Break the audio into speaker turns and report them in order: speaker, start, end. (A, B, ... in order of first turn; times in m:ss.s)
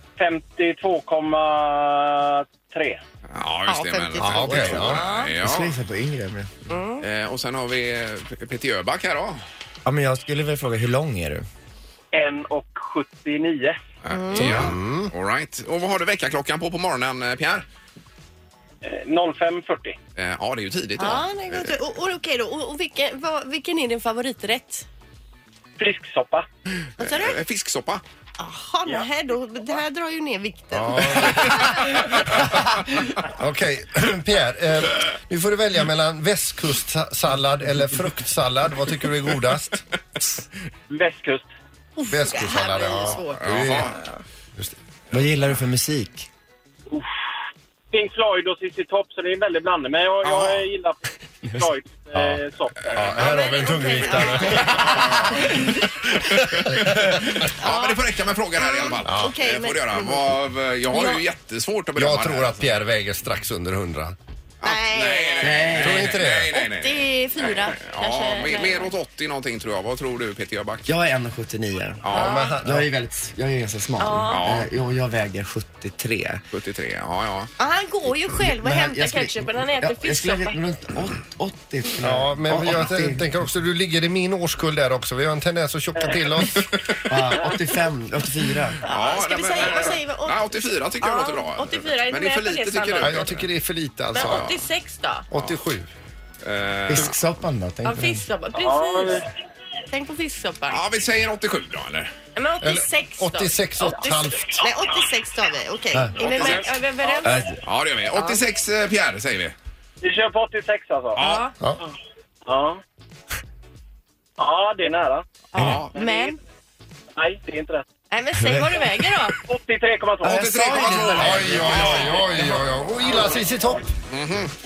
0:00.2-0:03.0 A
0:03.3-0:05.8 B
0:03.7-0:05.3 C
0:04.2-0:05.0 D
0:05.4-0:06.5 E
0:06.7-0:07.0 C
0:07.0-0:09.4 B
0:09.8-0:11.4 E
0:12.1-0:13.8 A
0:14.0-0:17.7 B
0:14.1-0:14.7 C
0:14.4-0:15.1 D
0:18.8-0:20.0 A
0:20.2-0:21.7 B
0:21.0-0:24.9 C
0:25.8-0:26.5 A
0:27.0-0:27.4 C
0:27.0-0:28.0 B
0:28.4-0:31.9 C
0:30.7-0:39.8 D
0:40.9-0:41.5 A
0:42.0-0:44.2 C
0:42.1-0:44.0 D
0:43.4-0:44.0 B
0:45.1-0:46.3 E
0:47.9-0:53.1 A
0:50.2-0:50.6 B
0:52.1-0:52.4 D
0:52.9-0:57.4 D
0:53.0-0:53.3 B
0:53.2-0:55.1 C
0:54.6-0:54.9 B
0:56.5-1:02.8 B
0:57.6-0:58.0 C
0:58.6-1:00.3 C
0:59.0-0:59.3 D
1:00.9-1:01.2 C
1:02.0-1:04.2 D
1:04.6-1:10.9 B
1:04.6-1:05.7 C
1:05.4-1:06.1 E
1:05.8-1:06.5 D
1:06.3-1:08.9 C
1:10.9-1:12.1 E
1:12.0-1:12.5 B
1:12.1-1:12.5 C
1:12.1-1:12.9 D
1:12.6-1:16.4 E
1:14.0-1:14.5 C
1:14.3-1:14.7 B
1:16.5-1:17.5 B
1:17.6-1:20.6 C
1:18.3-1:23.3 E
1:22.0-1:26.8 D
1:27.1-1:28.8 E
1:28.8-1:33.5 B
1:28.8-1:30.4 C
1:31.0-1:33.2 C
1:33.0-1:34.5 D
1:34.1-1:35.3 C
1:34.2-1:34.6 B
1:35.3-1:35.9 D
1:36.4-1:37.2 B
1:36.9-1:38.2 E
1:37.8-1:39.2 C
1:38.5-1:39.2 A
1:39.9-1:40.8 C
1:40.7-1:42.1 B
1:42.4-1:47.5 C
1:42.6-1:44.6 D
1:45.9-1:46.3 E
1:46.2-1:46.7 B
1:47.2-1:47.6 E
1:47.6-1:49.6 B
1:48.1-1:48.4 C
1:50.0-1:51.4 A
1:51.2-1:51.4 B
1:52.4-1:52.8 A
1:54.4-1:55.2 A
1:55.5-1:56.0 B
1:55.5-1:56.4 C
1:55.6-1:55.8 E
1:55.9-1:56.3 A
1:57.2-1:57.9 A
1:58.1-1:59.4 C
1:58.4-1:59.1 E
1:59.4-2:00.5 A
2:00.2-2:02.8 B
2:00.4-2:03.9 D
2:00.5-2:01.4 E
2:03.1-2:03.4 A
2:04.1-2:04.5 B